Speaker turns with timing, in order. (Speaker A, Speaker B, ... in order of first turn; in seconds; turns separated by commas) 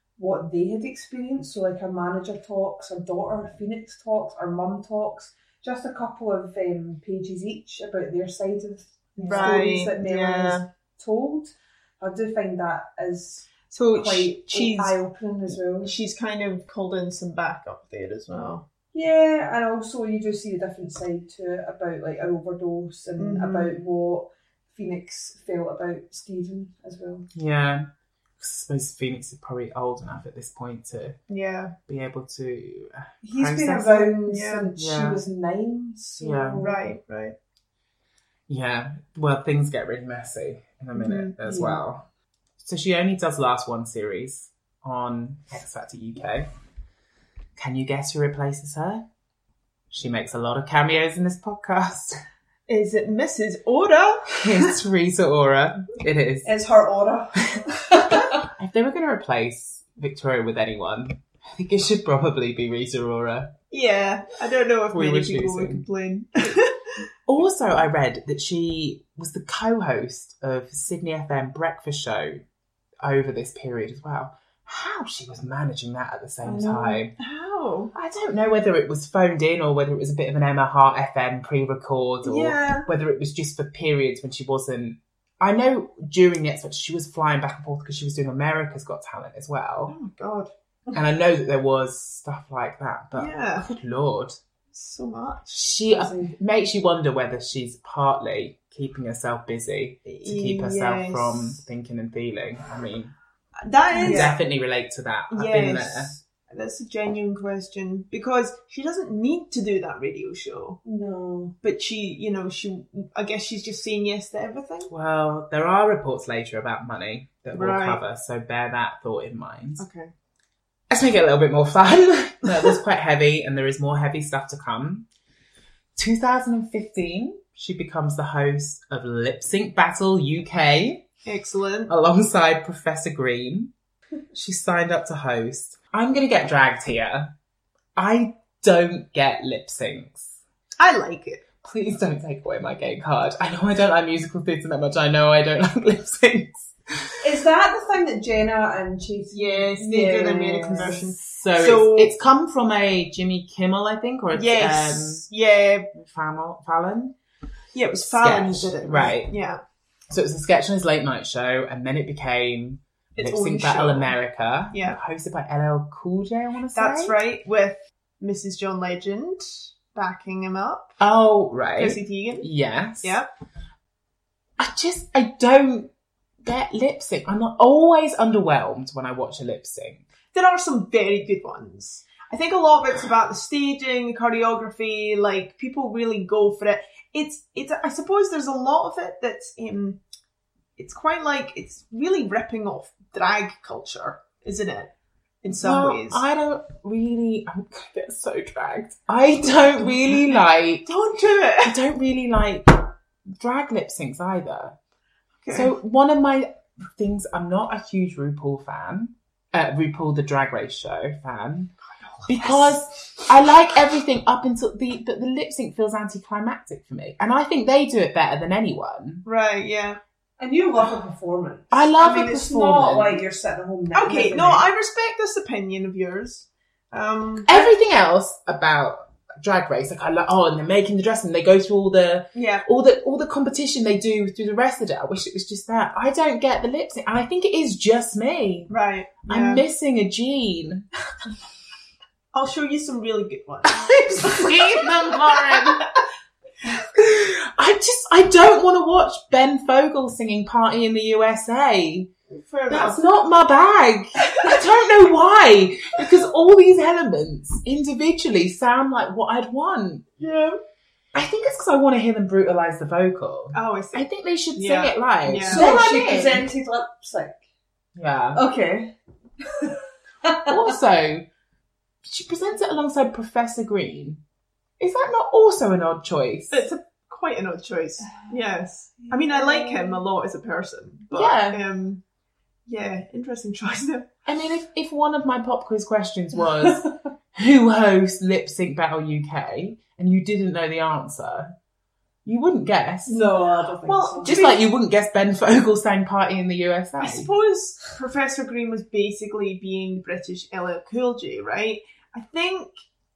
Speaker A: 0.2-15.9, Speaker B: 9.2-10.6, Speaker B: 13.7-15.0, Speaker B: 15.8-18.6, Speaker A: 18.9-27.3, Speaker B: 23.2-23.7, Speaker C: 27.3-27.9, Speaker C: 28.4-31.2, Speaker B: 31.3-31.7, Speaker C: 31.9-34.1, Speaker A: 33.2-36.9, Speaker B: 34.2-34.7, Speaker C: 34.8-35.2, Speaker C: 36.2-36.6, Speaker B: 36.6-37.4, Speaker C: 38.5-42.0, Speaker B: 40.9-41.3, Speaker A: 41.4-41.8, Speaker C: 42.6-46.5, Speaker C: 47.6-49.0, Speaker C: 49.9-52.2, Speaker B: 52.7-54.7, Speaker C: 54.4-56.8, Speaker A: 56.4-58.3, Speaker C: 58.0-63.5, Speaker B: 63.7-66.9, Speaker C: 64.9-65.8, Speaker C: 67.3-72.4, Speaker C: 73.0-77.1, Speaker A: 76.4-77.0, Speaker B: 77.2-77.9, Speaker C: 77.9-90.0, Speaker B: 82.2-82.9, Speaker B: 89.9-90.5, Speaker C: 90.9-94.4, Speaker B: 93.1-93.7, Speaker B: 94.7-95.6, Speaker C: 95.5-103.1, Speaker A: 95.9-96.3, Speaker B: 100.0-101.6, Speaker B: 103.6-104.3, Speaker A: 104.0-104.3, Speaker C: 104.0-106.2, Speaker B: 105.3-110.8, Speaker A: 110.8-111.5, Speaker B: 111.6-114.9, Speaker C: 114.9-119.8, Speaker B: 117.5-118.0, Speaker B: 119.8-120.1, Speaker C: 120.9-125.1, Speaker C: 126.0-131.1, Speaker B: 131.2-131.9, Speaker C: 131.9-133.7, Speaker C: 134.3-137.3, Speaker C: 137.9-140.4, Speaker B: 140.8-141.4, Speaker C: 141.6-147.1, Speaker A: 147.2-151.1, Speaker B: 149.3-152.1, Speaker C: 150.8-155.3, Speaker B: 154.3-155.9, Speaker C: 155.9-157.2, Speaker B: 157.7-159.6, Speaker C: 158.1-159.3, Speaker C: 160.1-167.2, Speaker B: 163.1-164.2, Speaker B: 164.7-165.0, Speaker B: 166.7-171.0, Speaker C: 171.0-173.2, Speaker B: 171.8-172.5, Speaker B: 173.0-173.3, Speaker C: 174.6-175.9, Speaker C: 176.4-180.0, Speaker B: 180.3-190.0, Speaker B: 190.8-196.2, Speaker C: 195.5-200.9, Speaker B: 200.8-201.8, Speaker C: 201.6-204.8, Speaker B: 205.4-205.7, Speaker C: 205.5-211.7, Speaker B: 212.0-212.9, Speaker C: 212.3-219.2, Speaker B: 219.2-220.0, Speaker A: 220.4-224.7, Speaker C: 221.7-223.2, Speaker B: 223.9-227.6, Speaker C: 227.5-238.7, Speaker B: 232.3-232.7, Speaker B: 238.7-239.6, Speaker C: 239.2-240.9, Speaker B: 242.3-245.8, Speaker C: 243.8-245.8, Speaker C: 246.9-252.1, Speaker B: 252.3-253.0, Speaker C: 252.7-260.1, Speaker B: 260.2-260.6, Speaker C: 261.1-266.4, Speaker B: 263.5-265.6, Speaker A: 265.5-267.4, Speaker C: 267.9-268.4, Speaker A: 268.3-268.9, Speaker A: 269.4-270.7, Speaker C: 270.4-271.2, Speaker C: 272.0-274.2, Speaker C: 274.8-276.7, Speaker B: 276.5-282.0, Speaker A: 278.1-278.4, Speaker A: 279.0-280.0, Speaker C: 281.1-281.6, Speaker B: 282.6-284.1, Speaker C: 284.2-291.5, Speaker C: 292.2-293.2, Speaker A: 293.1-294.4, Speaker B: 293.8-294.6, Speaker C: 294.2-297.3, Speaker B: 297.0-302.7